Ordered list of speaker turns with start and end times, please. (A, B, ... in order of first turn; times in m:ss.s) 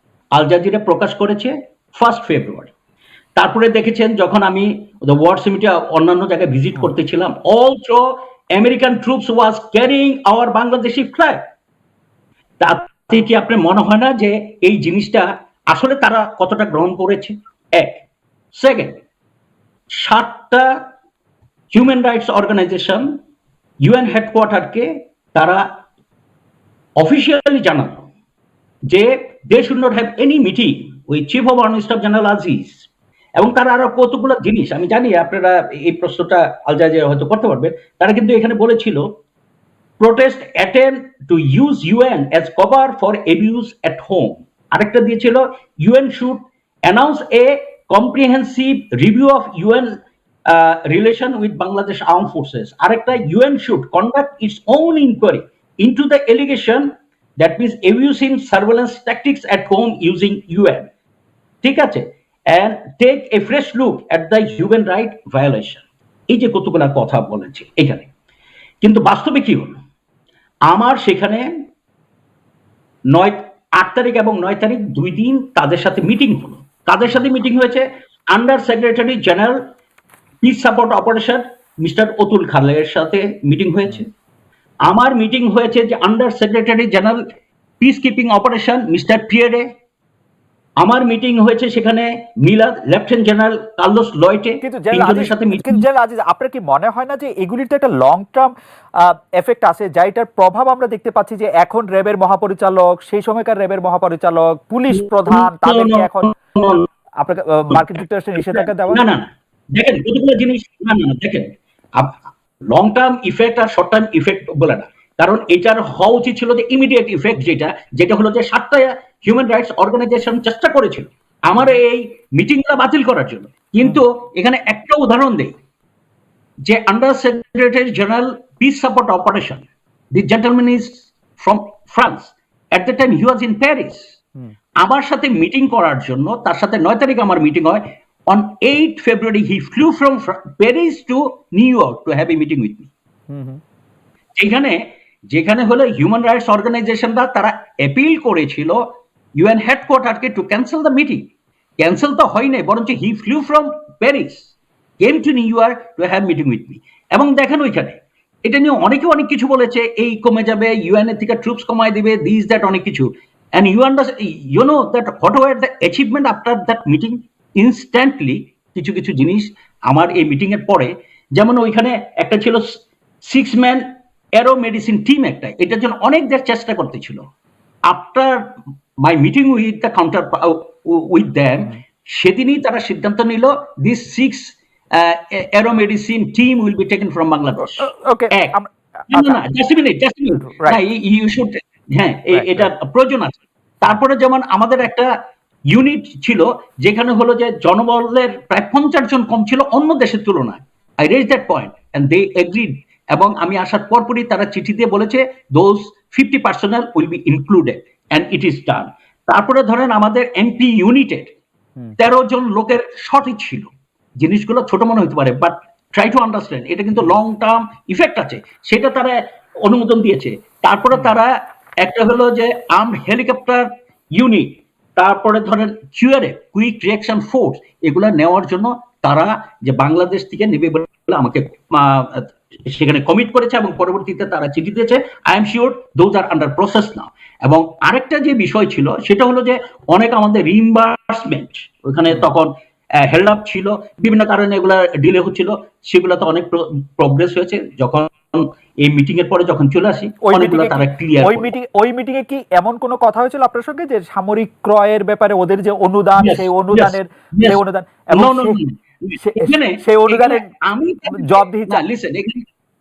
0:00.3-0:02.7 A
0:03.4-0:11.4 A
0:12.6-0:19.0 A
0:20.0-0:20.7 A
0:21.7-0:23.1 A
0:23.8-0:25.6 A
0:27.0-0:28.1 A
0:28.9-0:32.8 A
0:33.4-0:39.0 A
0:40.0-0:49.9 A
0:50.5-1:00.9 A
1:01.6-1:08.1 A
1:08.8-1:09.8 A
1:10.7-1:11.4 A
1:13.1-1:19.6 A
1:20.4-1:24.1 A
1:24.9-1:27.2 A
1:27.8-1:29.7 A
1:30.8-1:35.8 A
1:34.6-1:38.5 B
1:39.0-1:46.3 B
1:45.3-1:46.9 A
1:47.2-1:49.0 B
1:48.5-1:52.2 A
1:52.7-2:05.5 A
2:06.6-2:14.1 A
2:14.8-2:22.9 A
2:23.3-2:23.6 B
2:24.4-2:24.8 A
2:25.3-2:28.8 A
2:29.4-2:31.3 A
2:31.8-2:52.6 A
2:53.3-2:53.8 A
2:54.4-2:57.2 A
2:57.9-2:58.4 A
2:59.0-3:08.6 A
3:07.6-3:09.4 B
3:09.1-3:15.1 A
3:10.4-3:10.8 B
3:12.3-3:12.7 B
3:15.7-3:31.4 A
3:32.0-4:02.5 A
4:03.0-4:11.5 A
4:10.2-4:18.6 B
4:16.2-4:17.6 A
4:18.1-4:22.4 A
4:19.2-4:20.5 B
4:21.1-4:21.8 B